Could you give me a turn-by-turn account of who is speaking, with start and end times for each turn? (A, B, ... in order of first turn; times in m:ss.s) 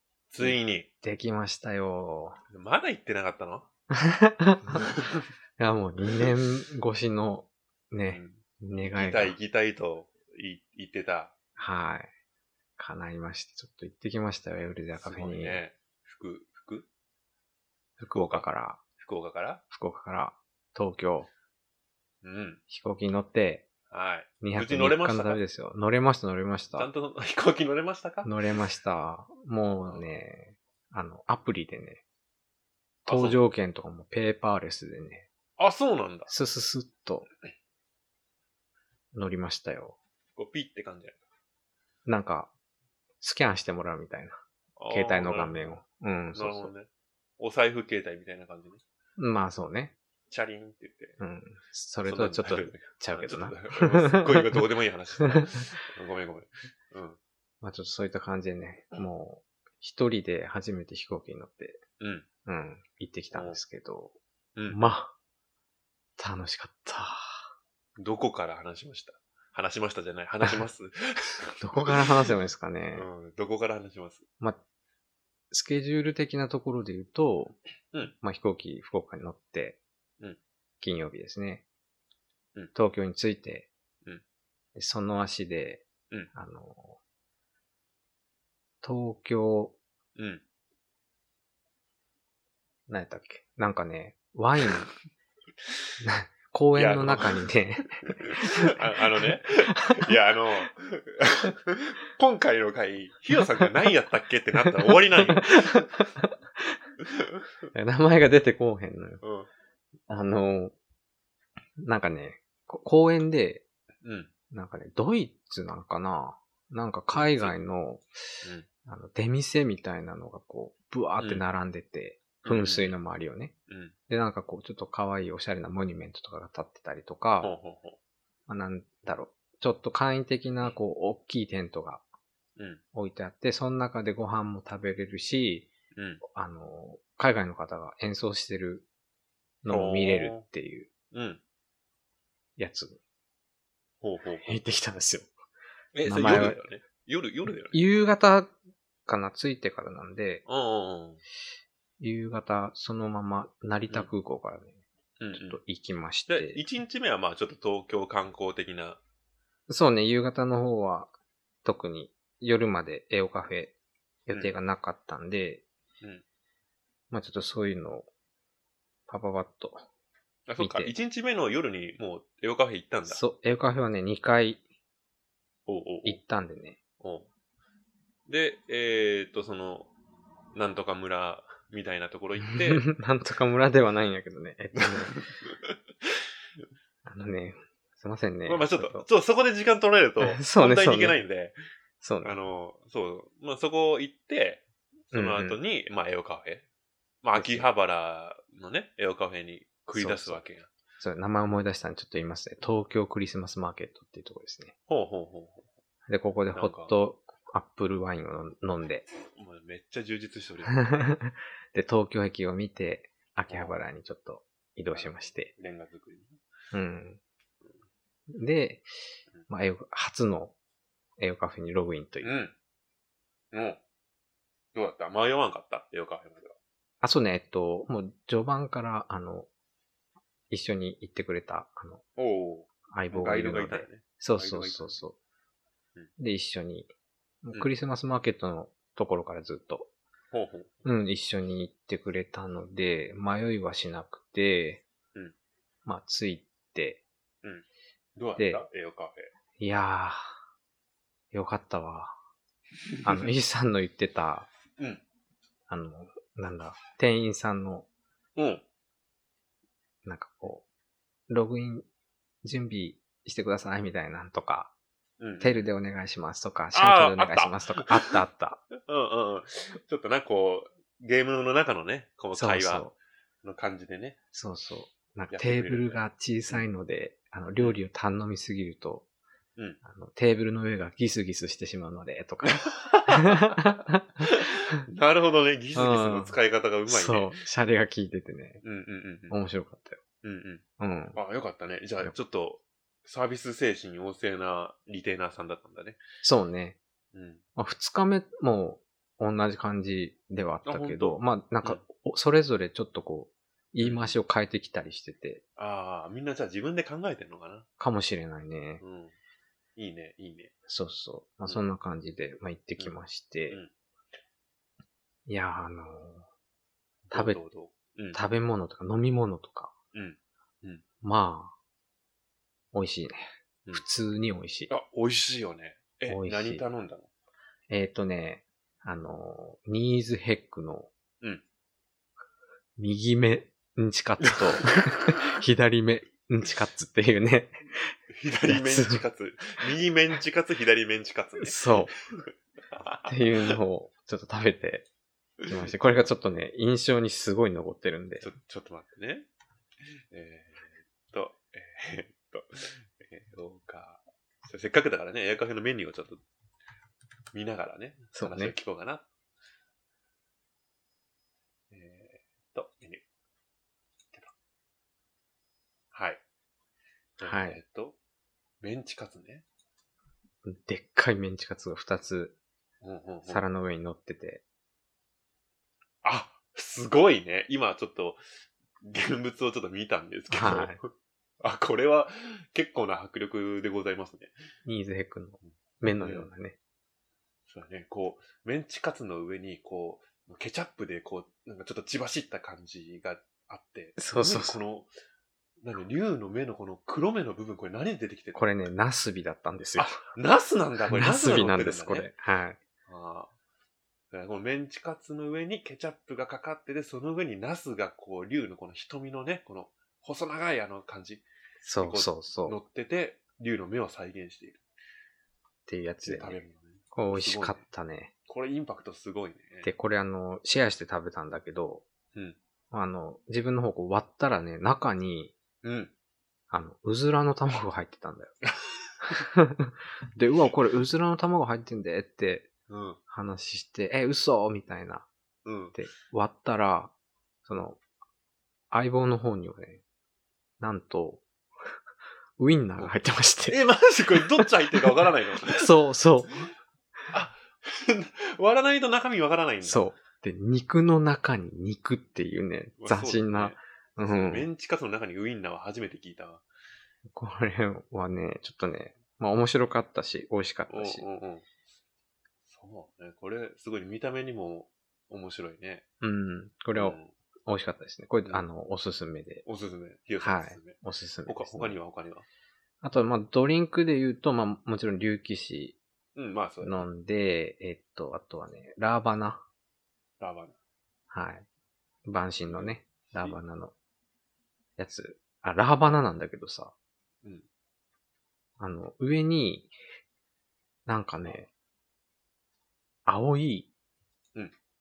0:00.3-0:00.9 A
0:00.4-0:02.4 B
0:02.5-0:03.7 A
0:03.9-0:04.8 B
0:04.7-0:05.3 A
0:05.6-0:09.4 B
0:08.1-0:11.3 A
0:11.6-0:12.1 B
0:12.8-0:15.6 B
0:14.9-0:16.9 A
0:18.0-0:18.8 B
0:18.1-0:18.4 A
0:19.0-0:19.6 A
0:19.7-0:21.3 B
0:22.2-0:22.6 A
0:22.7-0:23.7 B
0:23.9-0:25.4 A
0:24.4-0:26.9 B
0:26.8-0:28.3 A
0:28.2-0:32.0 B
0:29.8-0:30.0 A
0:33.1-0:33.4 A
0:33.1-0:35.3 B
0:35.6-0:36.3 A
0:36.3-0:37.3 B
0:39.1-0:40.0 B
0:40.4-0:41.2 A
0:42.1-0:42.5 B
0:43.2-0:44.4 B
0:44.8-0:45.6 A
0:44.9-0:46.7 B
0:46.3-0:48.8 A
0:49.2-0:50.0 B
0:50.3-0:51.2 A
0:51.2-0:54.6 B
0:52.0-0:57.2 A
0:57.6-1:01.8 B
1:02.0-1:02.3 A
1:02.4-1:04.2 B
1:03.3-1:03.6 A
1:04.7-1:05.1 B
1:06.2-1:07.5 B
1:08.0-1:12.1 A
1:11.6-1:13.1 B
1:13.0-1:14.3 A
1:15.5-1:17.6 B
1:18.2-1:19.8 B
1:20.8-1:21.6 B
1:22.7-1:23.7 B
1:24.8-1:27.0 B
1:28.8-1:29.8 B
1:30.2-1:30.4 A
1:32.9-1:34.9 B
1:36.0-1:40.1 B
1:36.8-1:37.5 A
1:38.0-1:45.9 A
1:44.9-1:46.8 B
1:47.0-1:47.3 A
1:47.7-1:49.2 B
1:49.2-1:49.5 A
1:50.1-1:50.7 B
1:51.8-1:53.6 B
1:54.0-1:54.3 A
1:54.5-1:58.1 B
1:57.1-1:57.6 A
1:58.9-2:03.5 B
2:02.4-2:03.0 A
2:03.7-2:04.0 A
2:04.1-2:07.5 B
2:07.4-2:08.0 A
2:08.5-2:12.0 B
2:12.6-2:12.8 A
2:12.9-2:15.7 B
2:16.0-2:16.2 A
2:16.2-2:18.9 B
2:19.6-2:20.9 B
2:19.7-2:20.5 A
2:21.1-2:21.4 A
2:22.6-2:23.0 B
2:24.0-2:24.6 A
2:24.4-2:25.3 B
2:25.9-2:27.8 A
2:26.0-2:26.6 B
2:27.7-2:28.6 B
2:29.1-2:30.4 B
2:30.5-2:31.2 A
2:32.0-2:34.8 B
2:35.2-2:35.6 A
2:35.3-2:36.6 B
2:36.3-2:39.0 A
2:39.7-2:41.1 B
2:41.6-2:43.7 B
2:44.3-2:45.6 B
2:44.3-2:44.6 A
2:47.1-2:48.1 B
2:49.1-2:49.8 B
2:50.5-2:53.2 A
2:50.6-2:50.9 B
2:53.1-2:54.6 B
2:55.7-2:56.2 A
2:56.0-2:56.8 B
2:57.0-2:57.3 A
2:58.3-2:59.9 A
3:00.5-3:02.8 A
3:02.5-3:05.2 B
3:04.8-3:05.8 A
3:07.0-3:09.1 B
3:08.5-3:11.6 A
3:10.2-3:11.2 B
3:12.0-3:12.4 B
3:12.2-3:16.7 A
3:15.1-3:15.6 B
3:17.2-3:20.7 A
3:17.4-3:17.7 B
3:19.9-3:20.4 B
3:21.0-3:24.7 B
3:24.9-3:25.7 A
3:26.1-3:29.1 B
3:26.5-3:27.0 A
3:29.4-3:31.1 A
3:30.8-3:35.5 B
3:33.5-3:33.8 A
3:34.9-3:36.4 A
3:36.7-3:37.2 B
3:38.3-3:38.9 B
3:39.5-3:40.5 B
3:41.2-3:42.3 B
3:42.2-3:42.5 A
3:43.5-3:43.8 A
3:44.7-3:46.6 A
3:47.0-3:49.5 B
3:50.5-3:52.0 B
3:52.2-3:55.0 A
3:52.9-3:55.2 B
3:56.2-3:56.9 B
3:57.4-3:59.9 B
4:00.3-4:00.8 A
4:00.8-4:04.8 B
4:05.9-4:07.0 B
4:08.2-4:09.3 A
4:08.4-4:08.7 B
4:09.6-4:10.3 B
4:11.3-4:12.2 B
4:13.0-4:13.3 A
4:13.0-4:14.5 B
4:14.8-4:15.0 A
4:15.7-4:17.9 B
4:18.4-4:18.6 A
4:20.0-4:20.6 B
4:21.3-4:21.9 B
4:22.4-4:24.7 B
4:25.2-4:25.7 A
4:25.4-4:28.6 B
4:26.7-4:28.2 A
4:28.8-4:32.9 A
4:32.3-4:32.9 B
4:33.4-4:34.2 A
4:34.3-4:39.0 B
4:35.3-4:36.6 A
4:39.8-4:44.3 B
4:42.4-4:43.6 A
4:44.2-4:47.4 A
4:45.8-4:46.4 B
4:46.9-4:48.6 B
4:48.6-4:49.4 A
4:49.3-4:50.0 B
4:50.2-4:50.6 A
4:50.8-4:51.2 B
4:51.1-4:56.0 A
4:56.2-4:56.8 B
4:57.1-4:57.4 A
4:57.6-5:05.4 B
5:00.6-5:01.8 A
5:03.8-5:04.2 A
5:05.6-5:07.7 A
5:07.8-5:08.8 B
5:08.8-5:09.1 A
5:09.8-5:10.5 A
5:10.7-5:13.6 B
5:15.3-5:16.3 B
5:17.1-5:18.2 A
5:17.1-5:17.4 B
5:18.1-5:19.7 B
5:19.9-5:20.8 A
5:21.0-5:21.5 B
5:22.7-5:24.7 B
5:24.7-5:27.1 A
5:26.1-5:26.6 B
5:27.7-5:30.9 B
5:32.8-5:37.9 B
5:34.2-5:35.2 A
5:38.1-5:43.6 A
5:38.5-5:39.0 B
5:41.4-5:41.9 B
5:43.1-5:44.9 B
5:45.4-5:45.7 A
5:45.5-5:48.3 B
5:48.2-5:49.3 A
5:50.1-5:56.2 A
5:57.3-5:59.1 A
5:58.1-5:58.6 B
6:01.7-6:03.0 A
6:05.9-6:06.2 A
6:07.2-6:08.0 A
6:07.2-6:07.6 B
6:08.6-6:09.4 A
6:10.4-6:12.4 B
6:12.8-6:13.5 A
6:13.3-6:14.4 B
6:16.0-6:18.2 A
6:18.8-6:20.9 A
6:20.3-6:20.8 B
6:21.4-6:24.4 A
6:24.6-6:26.6 B
6:26.0-6:26.3 A
6:27.5-6:34.9 A
6:34.0-6:34.6 B
6:35.6-6:38.4 A
6:38.4-6:40.0 B
6:39.8-6:42.1 A
6:40.9-6:42.6 B
6:42.9-6:43.3 A
6:44.1-6:51.2 A
6:51.6-6:52.6 B
6:51.8-6:54.6 A
6:55.7-6:56.4 B
6:56.0-6:57.6 A
6:56.9-6:58.1 B
6:58.3-6:59.7 A
6:59.6-7:01.8 B
7:02.7-7:05.3 B
7:05.6-7:05.9 A
7:06.5-7:08.4 B
7:08.6-7:09.2 A
7:09.3-7:12.5 B
7:12.7-7:13.0 A
7:13.1-7:15.1 B
7:15.4-7:15.8 A
7:15.7-7:16.9 B
7:17.5-7:17.8 B
7:18.7-7:19.8 B
7:20.6-7:21.2 B
7:22.4-7:23.6 B
7:23.5-7:25.7 A
7:24.2-7:24.9 B
7:25.4-7:26.4 B
7:27.1-7:29.8 A
7:29.6-7:34.5 B
7:32.8-7:36.4 A
7:37.1-7:41.0 B
7:40.7-7:41.5 A
7:42.5-7:45.8 A
7:46.0-7:49.4 B
7:46.7-7:47.1 A
7:49.4-7:52.3 A
7:50.2-7:51.8 B
7:52.8-7:55.8 B
7:56.2-7:56.9 A
7:56.6-7:59.4 B
8:00.2-8:00.6 A
8:01.1-8:01.5 B
8:02.0-8:03.7 B
8:02.5-8:03.4 A
8:04.8-8:06.7 B
8:08.6-8:09.7 B
8:10.9-8:11.5 B
8:13.1-8:13.7 B